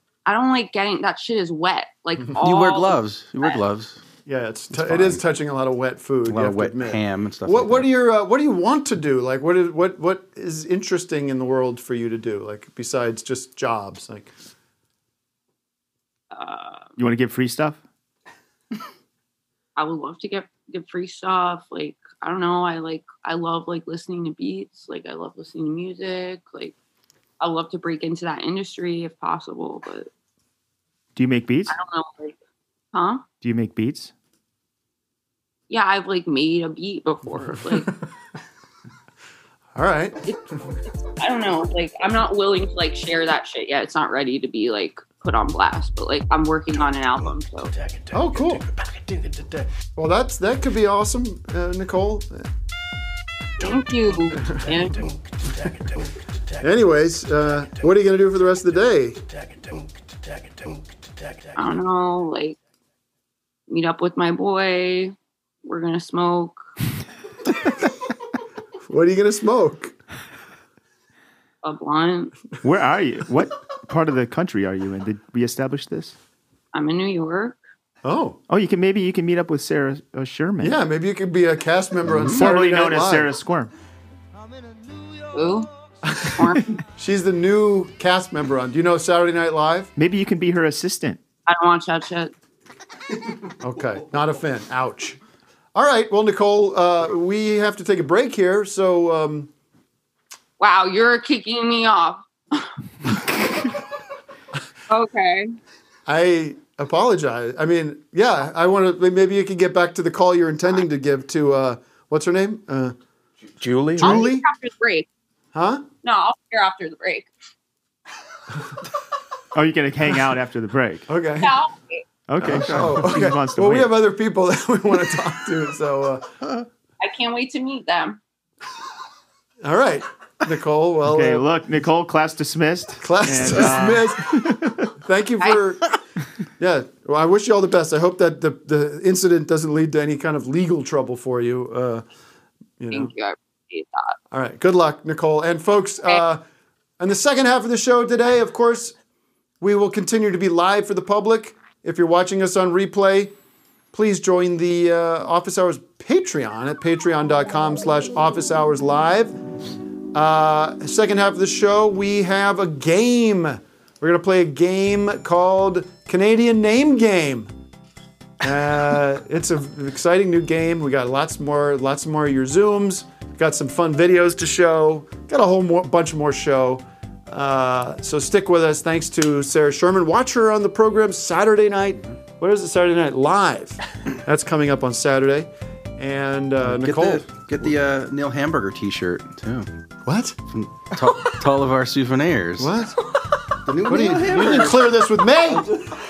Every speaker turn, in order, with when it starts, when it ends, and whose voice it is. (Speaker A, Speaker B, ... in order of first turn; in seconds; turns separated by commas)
Speaker A: 0.2-3.6, Speaker B: 2.4-4.0, Speaker C: 4.2-14.3, Speaker B: 4.7-5.2, Speaker B: 6.3-7.9, Speaker A: 16.3-16.9, Speaker D: 17.0-17.8, Speaker A: 19.8-26.7, Speaker A: 27.4-30.1, Speaker D: 31.1-31.8, Speaker A: 31.7-32.3, Speaker A: 32.9-33.3, Speaker D: 33.4-34.1, Speaker A: 35.7-37.9, Speaker C: 39.7-40.2, Speaker A: 41.2-47.7, Speaker E: 48.0-49.6, Speaker C: 48.1-48.6, Speaker C: 50.0-52.5, Speaker A: 53.6-55.1, Speaker C: 56.6-59.2, Speaker A: 61.5-62.5, Speaker A: 63.7-66.5, Speaker C: 68.9-69.9, Speaker A: 71.6-72.3, Speaker D: 72.6-76.2, Speaker A: 76.7-77.6, Speaker C: 78.0-78.4, Speaker D: 78.5-80.8, Speaker C: 80.6-83.3, Speaker B: 82.0-82.4, Speaker D: 82.3-83.7, Speaker A: 85.3-85.7, Speaker C: 86.0-86.3, Speaker A: 86.3-86.7, Speaker C: 87.0-89.9, Speaker D: 90.0-91.2, Speaker A: 91.5-92.3, Speaker C: 93.6-95.2, Speaker C: 95.7-99.5, Speaker A: 100.6-102.7, Speaker A: 104.9-105.5, Speaker C: 106.0-112.9, Speaker E: 113.6-114.2, Speaker A: 114.0-115.0, Speaker C: 114.0-114.5, Speaker C: 115.5-115.9, Speaker A: 116.0-117.3, Speaker D: 119.5-121.0, Speaker C: 121.1-121.6, Speaker A: 121.4-122.0, Speaker D: 122.3-123.9, Speaker B: 122.4-123.1, Speaker C: 122.4-126.3, Speaker A: 127.0-128.2, Speaker C: 129.6-131.4, Speaker D: 131.1-134.7, Speaker C: 133.0-135.8, Speaker C: 136.6-142.0, Speaker C: 142.8-143.1, Speaker A: 142.9-144.2, Speaker C: 144.3-146.4, Speaker C: 147.0-148.9, Speaker C: 149.6-153.3, Speaker C: 153.9-159.3, Speaker C: 160.1-167.5, Speaker C: 168.4-187.7, Speaker B: 186.6-189.7, Speaker C: 190.1-190.4, Speaker B: 190.5-192.7, Speaker C: 192.6-193.0, Speaker B: 193.7-195.0, Speaker C: 193.8-195.7